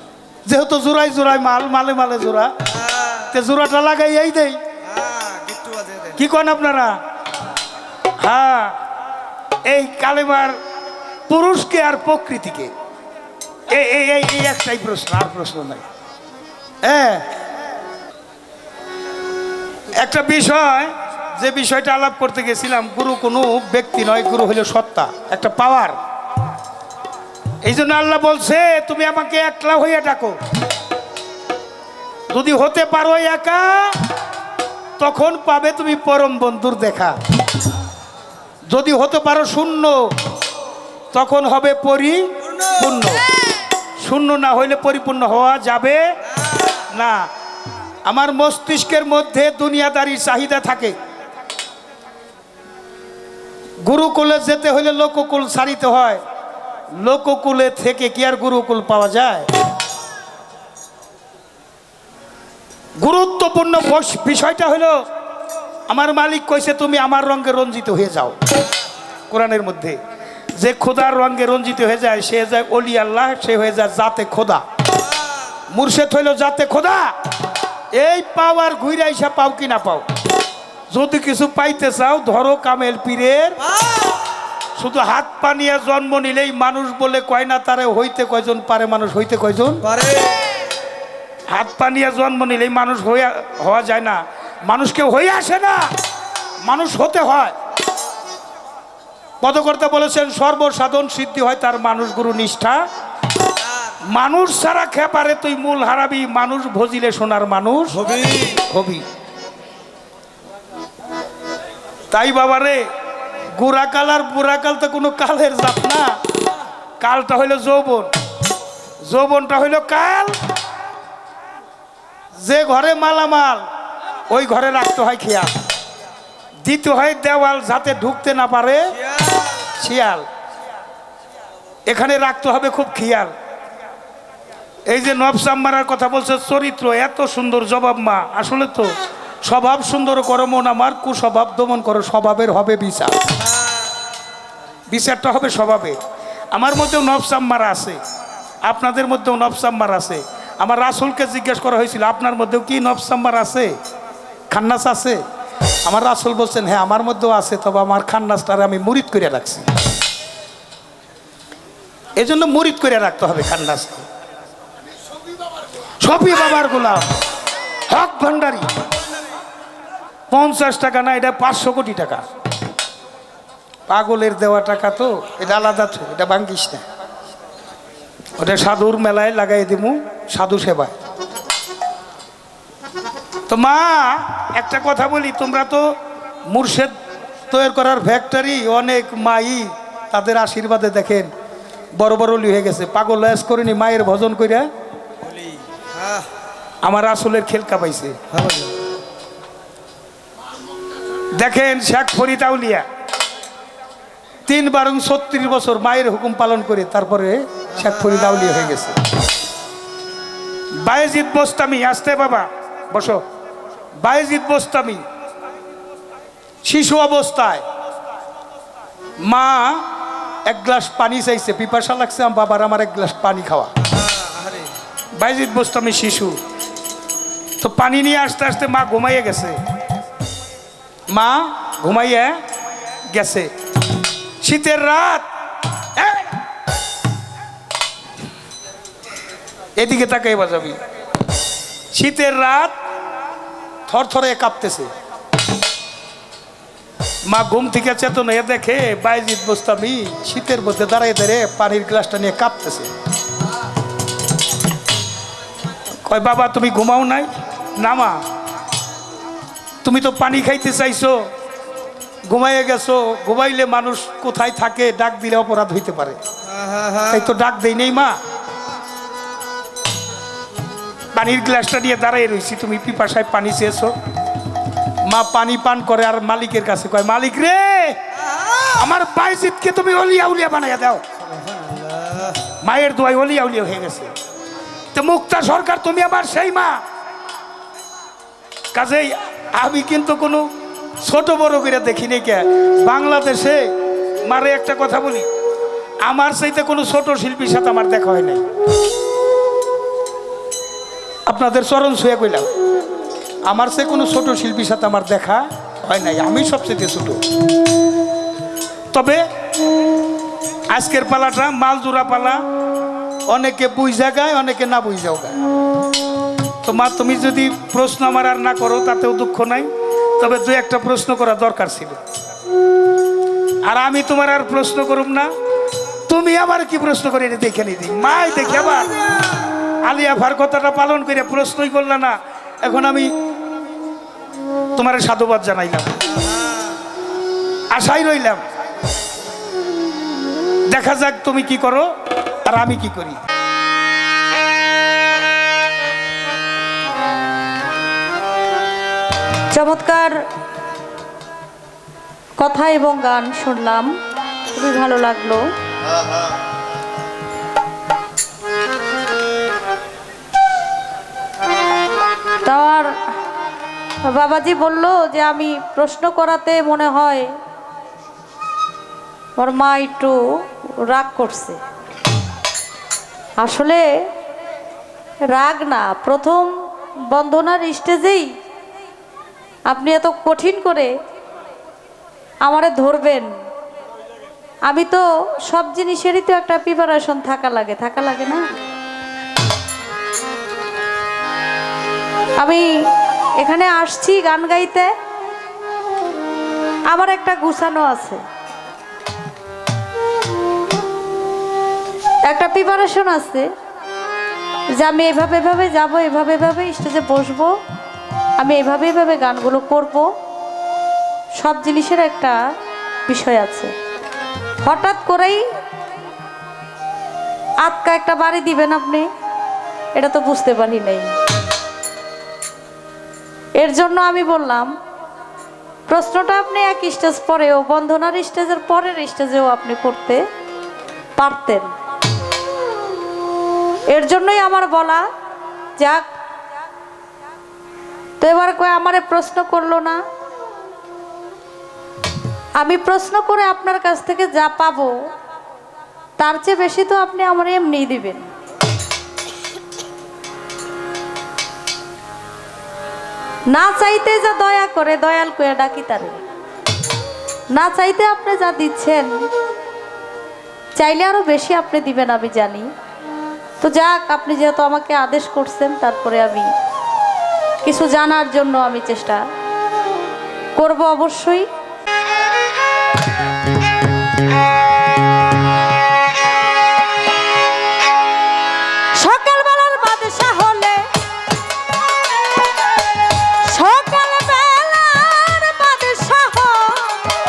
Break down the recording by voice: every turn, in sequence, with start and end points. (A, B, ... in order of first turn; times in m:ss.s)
0:00.4-0:02.6 A
0:02.6-0:03.3 B
0:03.3-0:04.6 A
0:04.8-0:06.2 B
0:06.2-0:07.0 A
0:08.2-0:08.8 A
0:09.6-0:10.6 A
0:11.3-0:12.7 A
0:13.7-0:15.8 A
0:16.8-0:17.3 A
0:19.9-0:26.0 A
0:27.6-0:30.4 A
0:32.3-0:34.1 A
0:35.0-0:37.2 A
0:38.7-0:40.1 A
0:41.1-0:43.2 A
0:44.0-0:46.0 A
0:46.9-0:47.3 A
0:48.0-0:51.0 A
0:53.8-0:56.2 A
0:57.0-0:59.5 A
1:03.0-1:05.0 A
1:05.9-1:08.4 A
1:09.3-1:10.0 A
1:10.6-1:14.6 A
1:15.7-1:17.1 A
1:17.9-1:20.0 A
1:20.9-1:23.6 A
1:23.6-1:24.2 B
1:24.8-1:29.8 A
1:29.8-1:30.4 B
1:31.5-1:35.9 A
1:36.6-1:37.5 A
1:39.4-1:42.8 A
1:44.0-1:48.0 A
1:47.9-1:48.6 B
1:48.7-1:49.0 A
1:52.1-1:52.8 A
1:53.6-1:56.1 A
1:57.0-1:58.1 A
1:59.0-2:00.4 A
2:02.4-2:03.7 A
2:04.3-2:05.5 A
2:06.6-2:09.0 A
2:09.7-2:10.2 A
2:11.9-2:13.3 A
2:14.9-2:23.2 A
2:24.9-2:26.0 A
2:26.5-2:28.0 A
2:28.6-2:33.8 A
2:34.5-2:35.2 A
2:35.8-2:39.7 A
2:42.2-2:44.0 A
2:46.0-2:47.1 A
2:47.9-2:48.7 A
2:50.3-2:52.2 A
2:53.9-2:56.8 A
2:58.4-3:00.9 A
3:03.5-3:05.9 A
3:06.5-3:06.9 A
3:07.5-3:11.3 A
3:11.9-3:14.7 A
3:15.7-3:16.2 B
3:16.8-3:18.2 A
3:18.3-3:18.7 B
3:21.3-3:22.8 A
3:24.4-3:29.0 A
3:27.7-3:28.7 B
3:30.7-3:33.2 A
3:34.0-3:35.0 A
3:36.6-3:37.6 A
3:39.2-3:39.9 A
3:40.4-3:43.7 A
3:44.0-3:44.7 B
3:45.2-3:46.4 A
3:47.6-3:49.6 A
3:51.1-3:52.4 A
3:53.1-3:53.5 A
3:54.4-3:55.3 A
3:56.0-3:56.4 A
3:59.8-4:00.8 A
4:01.9-4:02.8 A
4:03.9-4:04.9 A
4:07.3-4:12.9 A
4:16.0-4:18.2 A
4:19.8-4:21.3 A
4:22.2-4:26.2 A
4:26.5-4:27.2 B
4:27.1-4:28.2 A
4:31.1-4:33.9 A
4:35.0-4:38.0 A
4:38.2-4:38.8 B
4:38.7-4:41.0 A
4:41.2-4:42.4 B
4:42.6-4:44.1 A
4:44.9-4:46.8 A
4:48.7-4:50.5 A
4:51.0-4:53.7 A
4:54.2-4:55.3 A
4:56.0-4:58.4 A
5:01.3-5:02.5 A
5:03.4-5:07.2 A
5:08.9-5:09.3 A
5:10.7-5:12.4 A
5:13.3-5:15.3 A
5:16.6-5:22.0 A
5:23.6-5:25.3 A
5:26.1-5:29.0 A
5:28.2-5:29.5 B
5:29.8-5:33.1 A
5:34.8-5:36.0 A
5:36.2-5:36.7 B
5:37.7-5:38.4 A
5:40.7-5:41.9 A
5:42.4-5:43.2 A
5:49.5-5:50.2 C
5:52.4-5:54.0 C
5:54.5-5:55.4 C
6:02.4-6:03.0 C
6:04.0-6:07.3 C
6:09.4-6:11.6 C
6:13.4-6:13.8 C
6:15.3-6:16.5 C
6:17.1-6:18.3 C
6:19.7-6:20.9 C
6:22.4-6:23.3 C
6:24.7-6:28.5 C
6:32.4-6:34.9 C
6:36.9-6:38.2 C
6:42.2-6:43.5 C
6:44.7-6:47.5 C
6:48.4-6:50.1 C
6:51.4-6:52.4 C
6:53.1-6:53.7 C
6:54.6-6:55.4 C
6:57.6-6:59.1 C
6:59.9-7:01.1 C
7:03.6-7:04.7 C
7:05.9-7:10.2 C
7:11.2-7:11.7 C
7:13.9-7:15.0 C
7:15.8-7:16.0 C
7:18.2-7:20.0 C
7:22.6-7:24.9 C
7:26.2-7:28.2 C
7:33.5-7:36.2 C
7:37.5-7:39.1 C
7:40.8-7:42.7 C
7:43.6-7:46.5 C
7:47.6-7:49.2 C
7:50.6-7:51.5 C
7:59.0-8:00.8 C
8:03.4-8:07.1 C